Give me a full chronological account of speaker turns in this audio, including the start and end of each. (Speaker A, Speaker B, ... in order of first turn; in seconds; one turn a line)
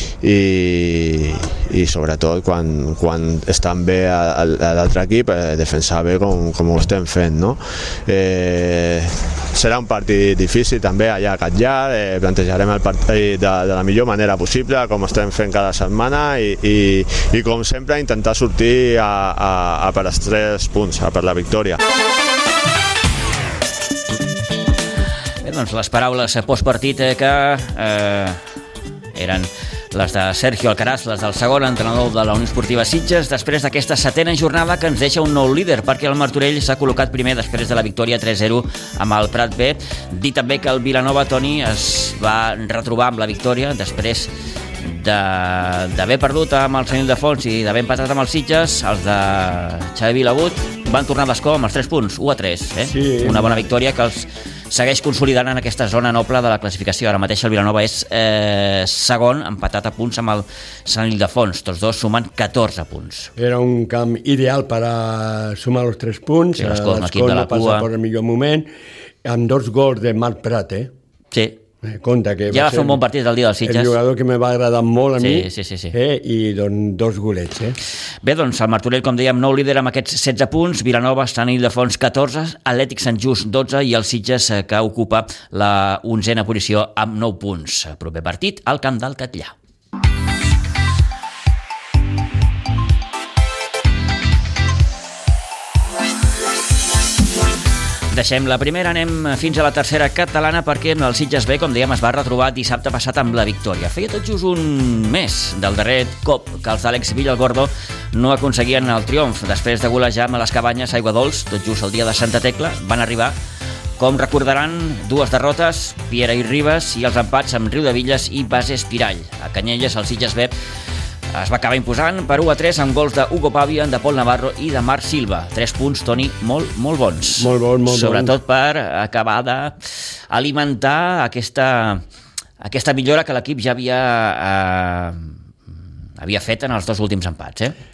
Speaker A: 0.2-21.8
Speaker B: 25.4-28.4
Speaker B: 29.2-44.3
Speaker B: 44.8-63.3
Speaker C: 52.8-53.6
Speaker C: 63.4-68.7
Speaker B: 66.6-67.9
Speaker C: 69.2-70.9
Speaker B: 71.3-71.6
Speaker C: 71.8-73.0
Speaker B: 72.5-73.9
Speaker C: 73.6-77.8
Speaker B: 75.2-76.0
Speaker B: 78.2-89.5
Speaker B: 98.1-113.4
Speaker B: 114.0-120.5
Speaker B: 121.3-129.8
Speaker C: 127.4-128.4
Speaker B: 130.3-132.0
Speaker B: 132.6-135.4
Speaker B: 136.2-137.8